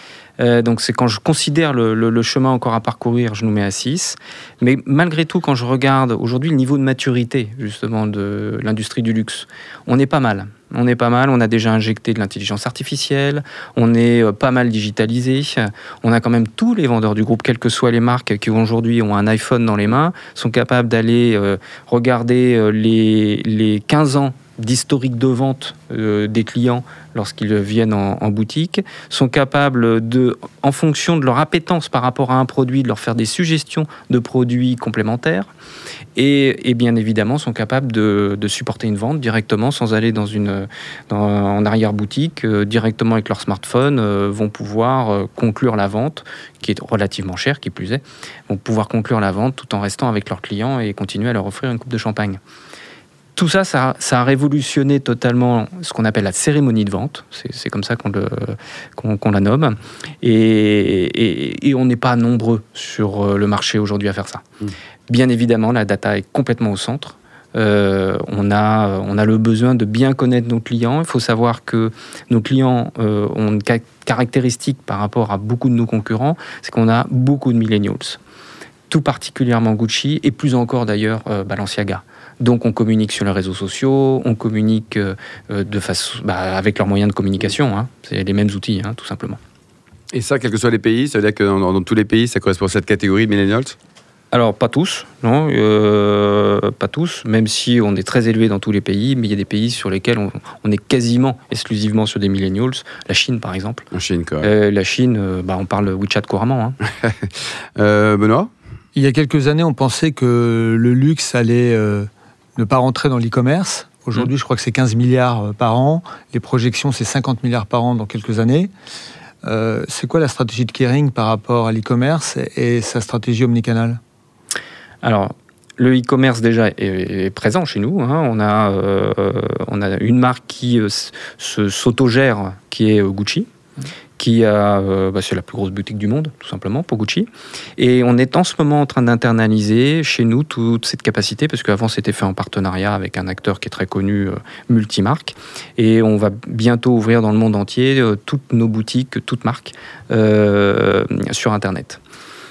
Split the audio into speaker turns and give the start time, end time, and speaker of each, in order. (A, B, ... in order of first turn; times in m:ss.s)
0:00.4-0:35.5 A
0:36.2-0:52.4 A
0:53.4-1:04.4 A
1:05.1-1:18.2 A
1:18.9-1:29.4 A
1:30.1-1:33.8 B
1:34.3-1:43.9 A
1:43.9-1:44.5 B
1:44.4-1:46.8 A
1:47.0-1:48.5 B
1:49.0-1:58.7 C
1:59.4-2:04.0 C
2:05.0-2:13.5 A
2:14.2-2:32.0 A